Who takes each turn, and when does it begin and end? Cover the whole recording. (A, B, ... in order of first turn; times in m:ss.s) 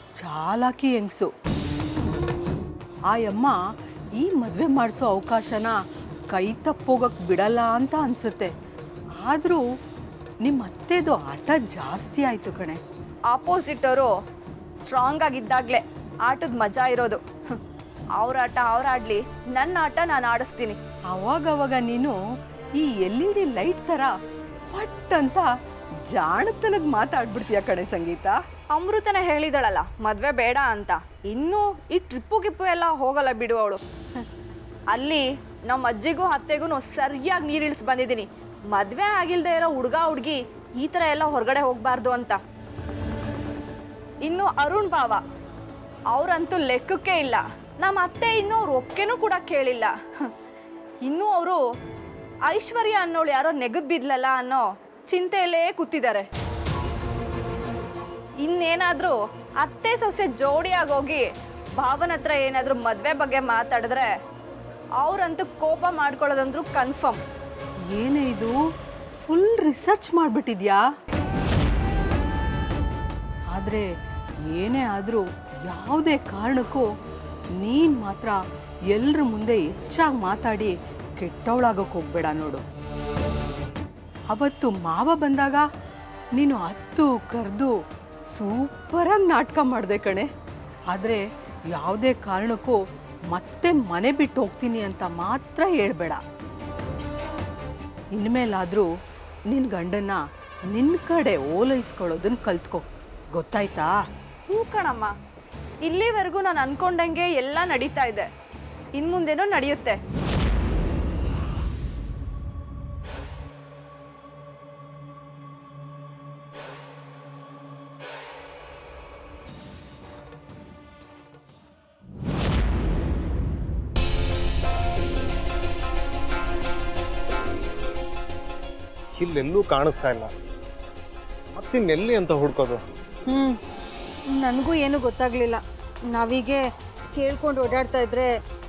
0:00.2-0:01.3 A
0:03.1-0:03.6 A
0:04.2-0:05.8 A
0:06.3-0:08.5 A
0:09.2-0:09.6 A
0:10.5-0:12.8 A
0:13.3-0:14.1 B
0:14.8-0:17.2 B
0:18.2-0:20.8 B
0:21.1-0:22.1 A
0:22.8-0:24.1 A
0:24.7-0:25.4 A
0:26.1-0:28.3 A
0:28.7-0:33.8 B
0:34.9-0:42.4 B
0:44.3-0:45.2 B
0:46.1-0:49.9 B
0:51.1-0:51.6 B
0:52.5-0:56.3 B
0:58.4-1:01.3 B
1:01.8-1:04.1 B
1:05.0-1:07.2 B
1:07.9-1:08.5 A
1:09.3-1:10.8 A
1:13.5-1:13.9 A
1:14.5-1:16.9 A
1:17.6-1:18.4 A
1:18.9-1:22.6 A
1:24.3-1:25.6 A
1:26.4-1:27.7 A
1:28.3-1:30.3 A
1:30.9-1:31.2 A
1:31.7-1:32.8 A
1:33.3-1:36.2 A
1:38.2-1:38.9 A
1:39.5-1:40.2 A
1:40.7-1:42.8 A
1:43.4-1:43.9 A
1:44.5-1:45.1 B
1:45.8-1:48.3 B
1:49.0-1:50.0 B
2:09.2-2:10.3 C
2:11.6-2:12.8 C
2:13.3-2:13.6 D
2:14.3-2:18.3 D